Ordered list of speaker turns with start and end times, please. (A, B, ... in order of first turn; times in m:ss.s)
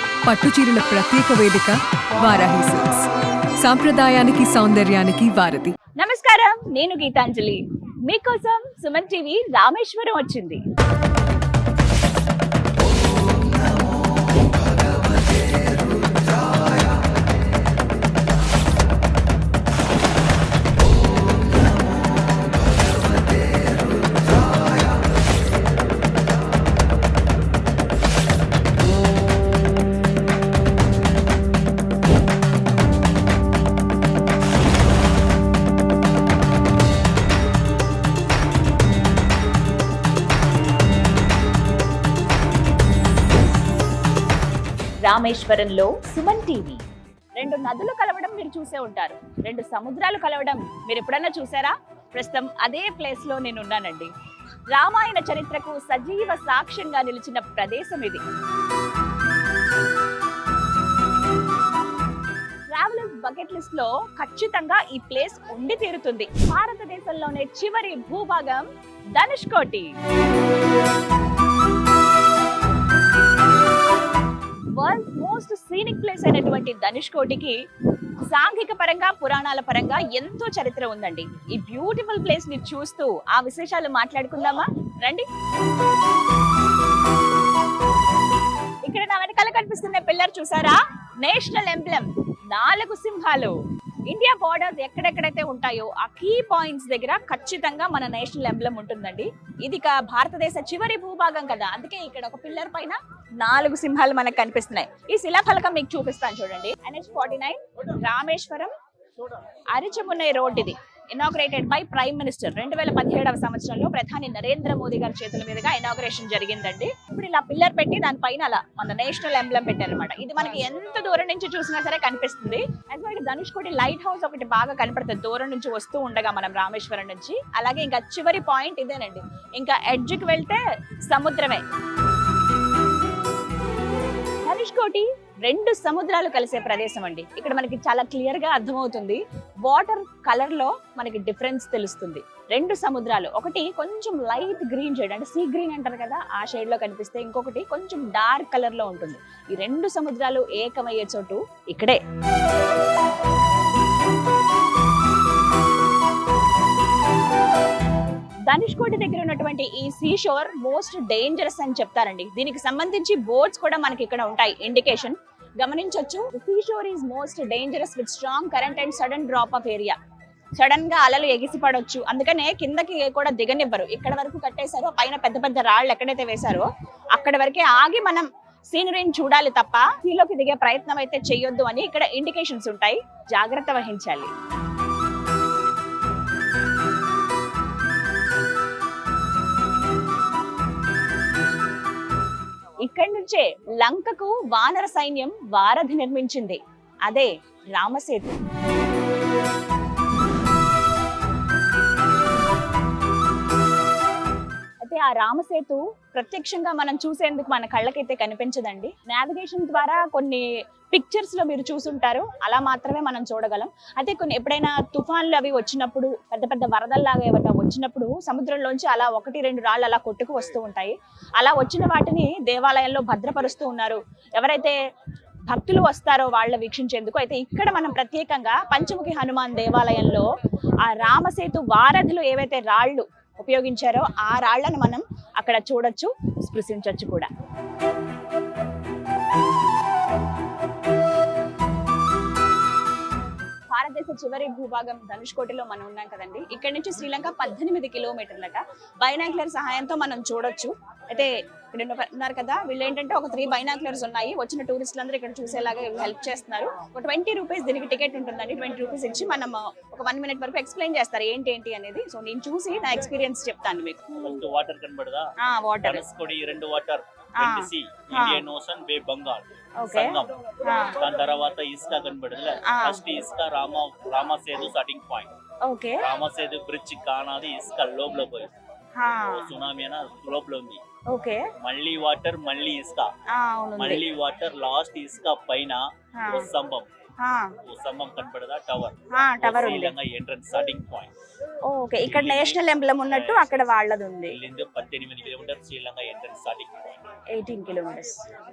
0:00.2-0:03.1 A
0:03.6-0:05.7 A
0:06.0-0:10.6 B
0:45.0-0:46.8 B
0:47.4-0:54.1 B
0:54.7-0:58.2 B
1:02.7-1:08.6 B
1:09.2-1:10.0 B
1:14.7-1:17.6 B
1:18.3-1:25.2 B
1:28.8-1:33.6 B
1:34.1-1:48.7 B
1:49.7-2:11.6 B
2:14.4-2:32.0 B
2:38.5-2:50.0 B
2:50.6-3:04.3 B
3:12.8-3:18.4 B
3:24.8-3:44.8 B
3:45.5-3:50.2 B
3:50.8-3:57.3 B
4:03.7-4:24.3 B
4:24.2-4:25.3 C
4:25.4-4:26.0 B
4:25.8-4:30.3 C
4:27.4-4:28.4 B
4:29.8-4:31.0 B
4:31.0-4:35.3 C
4:32.6-4:33.0 B
4:35.7-4:36.1 B
4:36.0-4:38.5 C
4:39.0-4:39.5 B
4:39.3-4:40.8 C
4:41.1-4:41.5 B
4:41.6-4:43.1 C
4:43.3-4:44.0 B
4:43.8-4:46.9 C
4:46.2-4:46.5 B
4:47.2-4:47.6 B
4:47.6-4:51.1 C
4:49.2-4:49.9 B
4:51.6-4:54.4 B
4:52.0-4:53.5 C
4:54.3-4:57.0 C
4:57.3-4:58.2 B